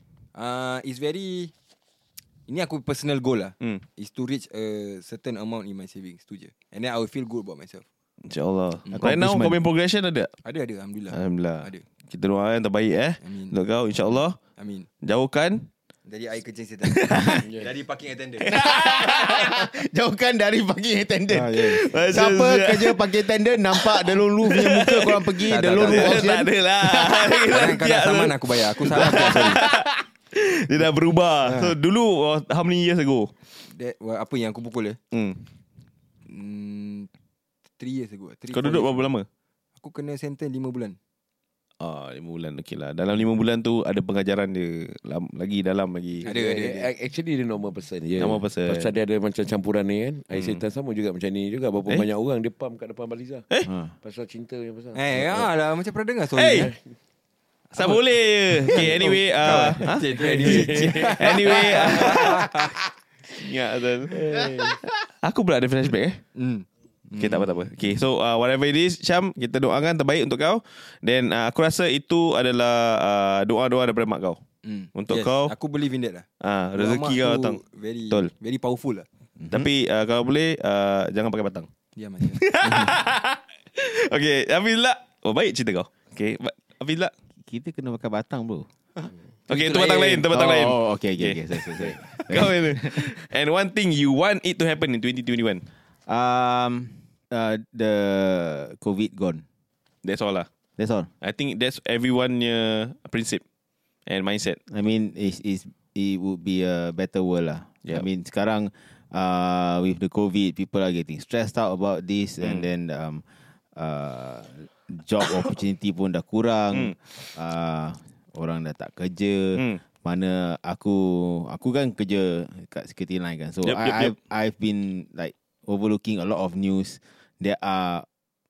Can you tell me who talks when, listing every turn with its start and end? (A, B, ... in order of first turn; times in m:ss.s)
0:00.3-0:01.5 A
0:02.5-0:07.8 A
0:08.2-0:10.3 B
0:08.9-0:09.6 C
0:10.4-0:11.8 A
0:11.1-0:14.4 B
0:13.2-0:13.6 A
0:14.6-0:14.8 A
0:15.0-0:15.7 B
0:16.1-0:18.5 A
0:16.8-0:17.4 B
0:18.4-0:26.5 C
0:18.4-0:19.5 B
0:21.3-0:21.8 A
0:21.6-0:23.1 B
0:24.4-0:33.3 B
0:25.4-0:26.3 A
0:27.0-0:29.6 A
0:31.4-0:31.8 A
0:33.6-0:35.0 A
0:35.1-0:35.4 B
0:36.3-0:37.1 A
0:37.8-0:39.1 A
0:38.5-0:39.2 B
0:39.8-0:41.0 A
0:41.8-0:46.3 B
0:46.2-0:46.9 A
0:46.3-0:53.5 D
0:48.2-0:48.9 B
0:50.3-0:50.6 B
0:54.0-0:55.5 D
0:54.9-0:56.7 A
0:56.4-0:56.7 B
0:56.5-0:56.8 D
0:57.7-1:02.4 B
0:57.8-0:58.0 A
0:58.6-1:02.7 A
0:58.8-0:59.8 D
1:00.3-1:01.3 D
1:03.3-1:06.2 B
1:04.1-1:04.8 D
1:06.3-1:07.5 A
1:07.2-1:14.4 B
1:14.6-1:16.2 A
1:14.9-1:15.5 B
1:16.4-1:17.6 B
1:16.8-1:19.0 A
1:19.4-1:19.6 C
1:19.5-1:21.7 B
1:22.0-1:22.9 A
1:22.3-1:27.1 B
1:27.4-1:28.7 C
1:29.5-1:30.2 D
1:29.5-1:35.6 B
1:30.2-1:33.1 C
1:36.1-1:39.4 C
1:40.0-1:40.5 B
1:40.8-1:41.1 C
1:41.2-1:43.4 B
1:44.1-1:44.6 B
1:44.7-1:53.2 C
1:52.4-1:52.6 B
1:53.8-2:08.0 C
2:03.6-2:04.1 B